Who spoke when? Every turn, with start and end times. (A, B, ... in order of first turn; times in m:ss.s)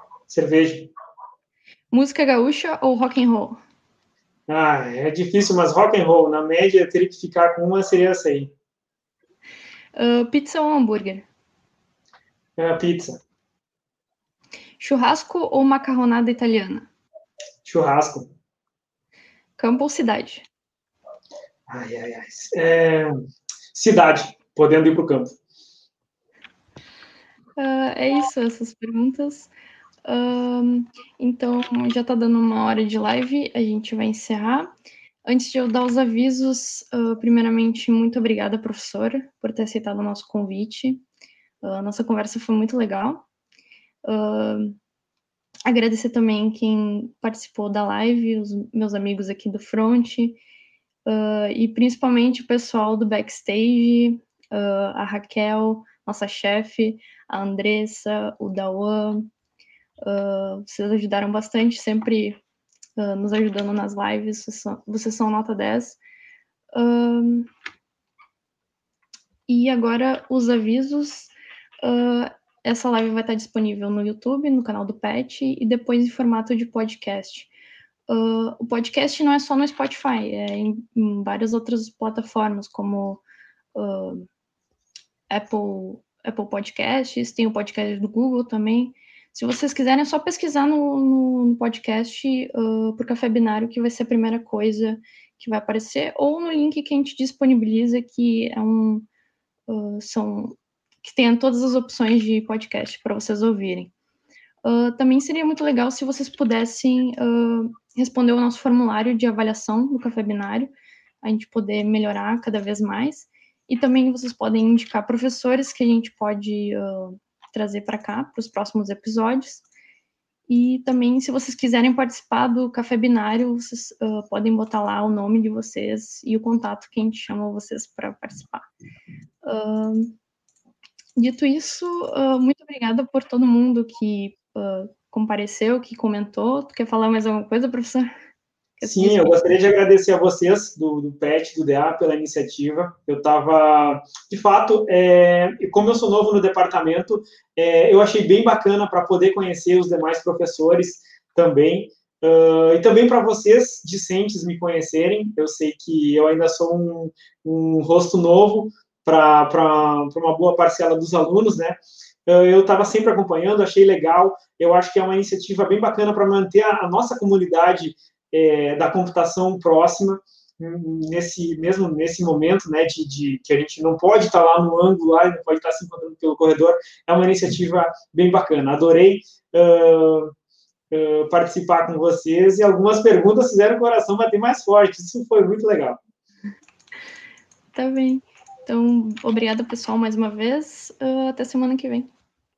0:00.3-0:00.9 A
0:01.9-0:03.6 B
0:04.5-0:08.5 A
0:09.9-0:11.2 B
0:12.6-0:13.2 A
0:14.8-0:16.9 B
0:17.6-0:18.3 A
0:19.6-0:20.4 B
0:21.7-0:23.1 A
0:23.7-0:25.3 A
0:27.6-0:29.5 B
0:30.0-0:34.7 B
0:35.2-0:41.0 B
0:41.6-0:43.2 B
0:44.0-0:44.8 B
0:45.6-0:50.4 B
0:51.0-0:59.3 B
1:00.0-1:02.4 B
1:03.0-1:06.0 B
1:06.7-1:07.5 B
1:09.5-1:11.3 B
1:11.8-1:17.5 B
1:18.1-1:23.2 B
1:23.7-1:24.2 B
1:25.3-1:39.1 B
1:39.7-1:43.9 B
1:44.6-1:50.7 B
1:51.2-1:59.6 B
2:00.5-2:08.6 B
2:09.4-2:10.1 B
2:11.2-2:18.1 B
2:18.8-2:19.4 B
2:18.8-3:00.3 A
3:00.9-3:06.0 A
3:07.7-3:12.1 B